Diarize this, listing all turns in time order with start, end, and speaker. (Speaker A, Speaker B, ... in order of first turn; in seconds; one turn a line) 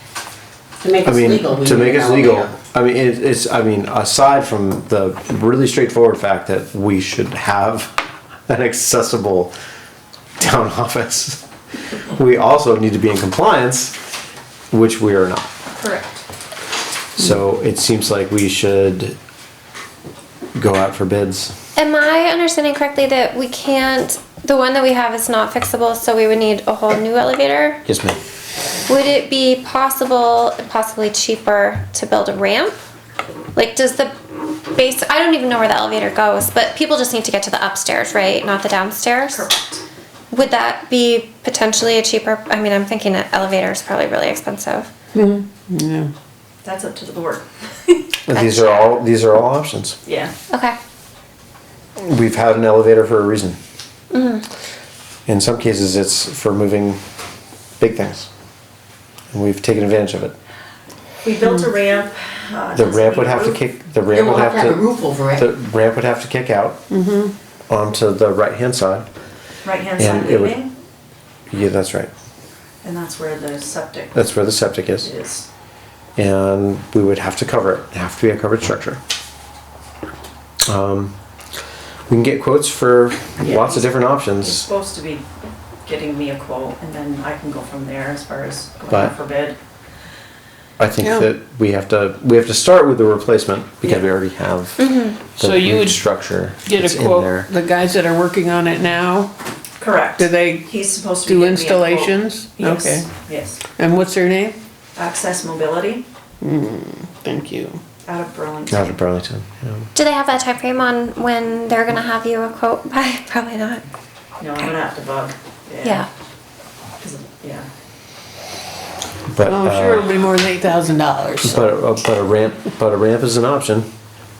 Speaker A: 0.8-2.5
Speaker B: 1.0-9.5
Speaker B: 10.4-11.4
Speaker B: 12.2-13.9
Speaker B: 14.7-15.6
Speaker C: 15.8-16.2
Speaker B: 17.2-19.2
Speaker B: 20.6-21.5
Speaker D: 21.8-27.8
Speaker B: 27.9-28.2
Speaker D: 28.9-32.8
Speaker D: 33.5-34.1
Speaker D: 34.7-39.4
Speaker C: 39.3-39.8
Speaker D: 40.3-44.9
Speaker E: 45.1-46.1
Speaker C: 46.6-48.1
Speaker B: 48.3-50.0
Speaker D: 48.3-49.0
Speaker C: 50.1-50.3
Speaker D: 50.5-50.8
Speaker B: 52.0-53.6
Speaker D: 54.1-54.5
Speaker B: 55.3-57.0
Speaker B: 57.8-58.3
Speaker B: 59.3-60.4
Speaker C: 61.2-63.6
Speaker B: 62.8-66.8
Speaker A: 64.1-65.5
Speaker E: 66.9-67.3
Speaker B: 67.7-69.1
Speaker C: 69.7-70.7
Speaker B: 70.0-70.6
Speaker B: 71.5-72.1
Speaker C: 72.8-74.3
Speaker B: 74.1-75.1
Speaker C: 75.0-75.5
Speaker B: 76.2-79.0
Speaker B: 80.7-81.1
Speaker B: 82.1-84.6
Speaker C: 83.4-85.2
Speaker C: 85.8-89.6
Speaker B: 90.8-97.5
Speaker E: 91.0-91.3
Speaker D: 94.8-95.1
Speaker E: 95.3-96.1
Speaker E: 96.6-99.3
Speaker C: 99.8-103.6
Speaker E: 100.2-103.1
Speaker E: 103.8-104.6
Speaker C: 105.0-106.0
Speaker E: 106.4-107.8
Speaker C: 108.1-109.0
Speaker B: 108.7-109.9
Speaker D: 110.0-113.8
Speaker C: 114.4-116.1
Speaker C: 117.0-117.7
Speaker B: 119.3-120.1
Speaker E: 119.4-121.6
Speaker B: 121.4-123.9